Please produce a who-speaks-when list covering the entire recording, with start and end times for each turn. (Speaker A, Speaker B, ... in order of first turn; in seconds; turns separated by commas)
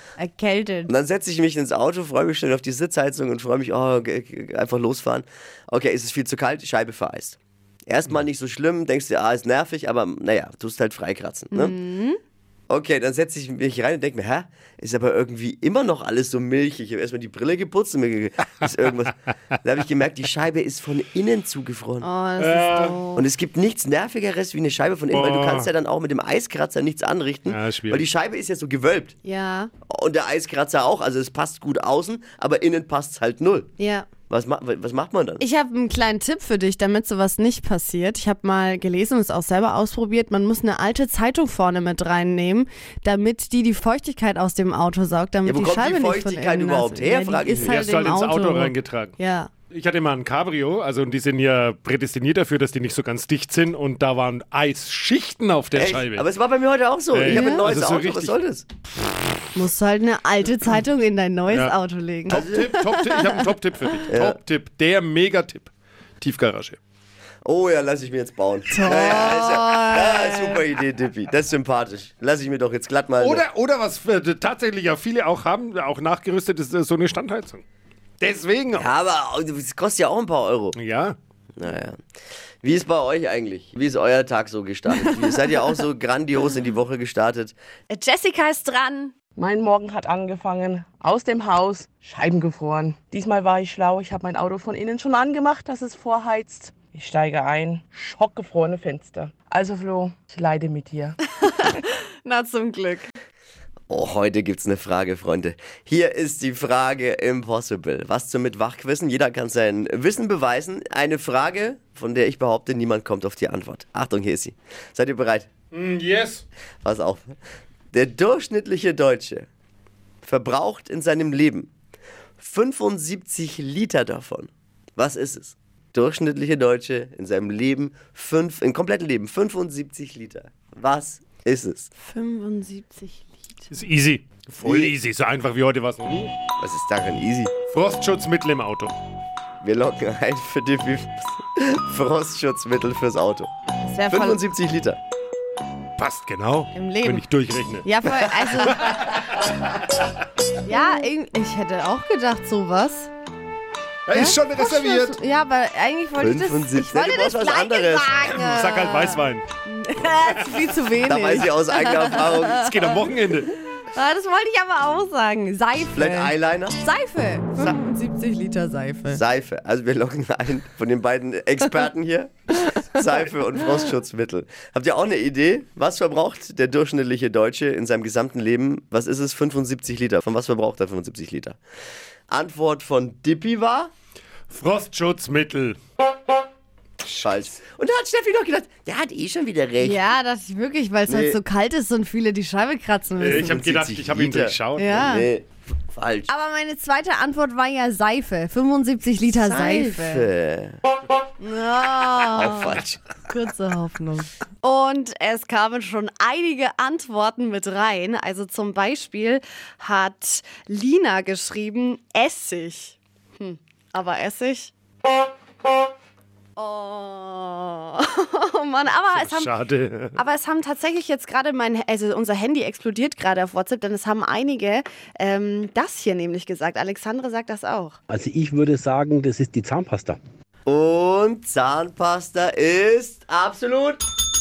Speaker A: 0.2-0.9, Speaker B: 0.9-11.8, Speaker A: 11.5-12.2, Speaker B: 12.7-22.1, Speaker A: 22.0-23.3, Speaker C: 22.4-22.9, Speaker B: 23.2-29.1, Speaker C: 25.1-25.7, Speaker C: 27.5-28.1, Speaker A: 29.2-29.7, Speaker B: 29.9-33.7, Speaker A: 33.8-34.1, Speaker B: 34.3-35.4, Speaker A: 35.4-49.5, Speaker B: 45.4-47.9, Speaker C: 47.6-49.1, Speaker C: 49.7-56.2, Speaker B: 55.8-58.7, Speaker C: 57.1-58.4, Speaker A: 57.3-57.6, Speaker A: 59.5-63.4, Speaker C: 61.5-61.8, Speaker C: 62.3-65.7, Speaker B: 62.3-62.8, Speaker B: 64.1-64.4, Speaker C: 66.2-66.8, Speaker B: 67.4-73.4, Speaker A: 68.7-70.6, Speaker C: 73.2-77.6, Speaker C: 78.2-78.9, Speaker B: 78.7-80.8, Speaker C: 80.8-81.2, Speaker B: 81.6-82.0, Speaker B: 82.6-87.5, Speaker A: 87.9-89.1, Speaker D: 89.4-101.2, Speaker A: 101.4-103.1, Speaker B: 103.9-115.5, Speaker C: 115.7-116.4, Speaker B: 116.8-117.3, Speaker B: 117.9-119.5, Speaker B: 120.2-121.7, Speaker B: 122.4-131.9, Speaker A: 132.0-133.7, Speaker C: 133.7-136.3, Speaker B: 134.6-134.9, Speaker B: 136.6-137.5, Speaker C: 137.7-138.9, Speaker B: 139.6-143.5, Speaker A: 143.8-144.4, Speaker B: 144.1-145.0, Speaker C: 146.0-147.9, Speaker A: 146.7-147.3, Speaker A: 147.8-148.8, Speaker B: 148.1-148.8, Speaker C: 148.8-149.6, Speaker A: 150.7-153.1, Speaker C: 154.1-155.2, Speaker A: 154.1-163.1, Speaker B: 156.2-158.2, Speaker C: 158.2-159.4, Speaker B: 161.1-162.7, Speaker C: 162.6-163.5, Speaker A: 163.8-169.2, Speaker B: 165.9-166.8, Speaker B: 167.6-167.8, Speaker B: 169.1-181.6, Speaker B: 182.3-183.9, Speaker C: 184.5-185.8, Speaker B: 187.1-190.1, Speaker A: 189.8-193.6, Speaker B: 191.1-191.4, Speaker C: 193.2-195.1, Speaker B: 193.3-196.3, Speaker A: 194.8-195.3, Speaker A: 196.3-200.3, Speaker B: 199.2-200.8, Speaker A: 201.4-214.7, Speaker B: 202.3-203.0, Speaker A: 216.6-219.5, Speaker C: 219.1-220.2, Speaker A: 220.2-228.0, Speaker E: 228.1-230.2, Speaker B: 230.7-234.0